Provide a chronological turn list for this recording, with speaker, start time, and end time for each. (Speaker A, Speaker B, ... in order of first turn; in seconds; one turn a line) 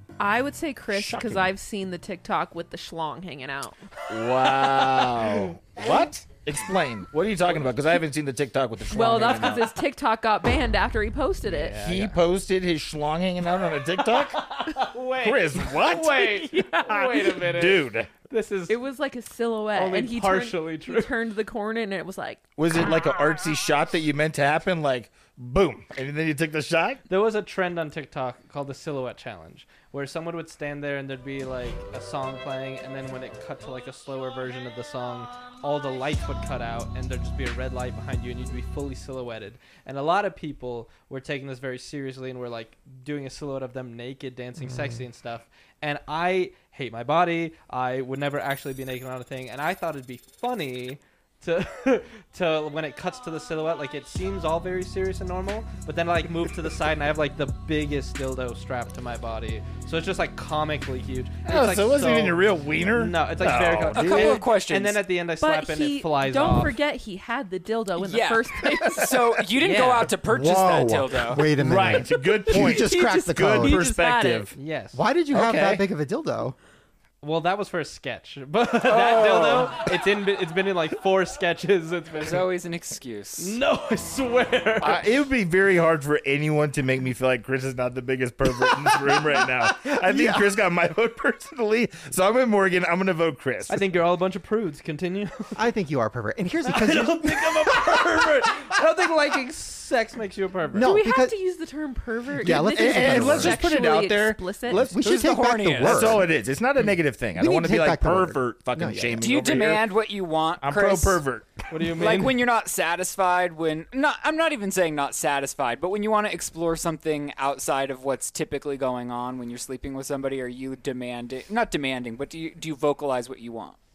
Speaker A: 0.2-3.8
Speaker B: 0.9-1.5
Speaker B: 4.1-9.8
Speaker A: 8.9-11.8
Speaker C: 11.4-12.2
Speaker B: 11.8-18.1
Speaker C: 14.1-18.8
Speaker A: 18.7-22.4
Speaker C: 19.7-21.1
Speaker B: 22.6-27.0
Speaker C: 27.1-66.8
Speaker D: 44.6-45.0
Speaker B: 61.5-64.4
Speaker E: 63.8-65.0
Speaker A: 65.4-69.1
Speaker E: 68.0-71.4
Speaker C: 69.6-70.1
Speaker B: 70.2-74.6
Speaker D: 70.4-73.8
Speaker A: 72.5-74.5
Speaker C: 74.5-75.0
Speaker D: 74.9-76.5
Speaker B: 75.3-75.8
Speaker C: 77.2-82.5
Speaker E: 78.8-79.8
Speaker E: 82.2-83.6
Speaker C: 83.4-85.0
Speaker B: 84.8-93.9
Speaker D: 89.8-90.5
Speaker C: 93.7-95.6
Speaker D: 95.5-98.2
Speaker C: 96.7-100.9
Speaker D: 100.7-101.3
Speaker A: 100.8-104.8
Speaker D: 102.4-103.7
Speaker B: 102.4-105.2
Speaker D: 104.7-106.3
Speaker E: 105.0-106.2
Speaker B: 105.8-109.9
Speaker D: 107.3-109.4
Speaker E: 109.2-111.2
Speaker B: 110.6-112.0
Speaker C: 111.7-112.4
Speaker E: 112.0-123.8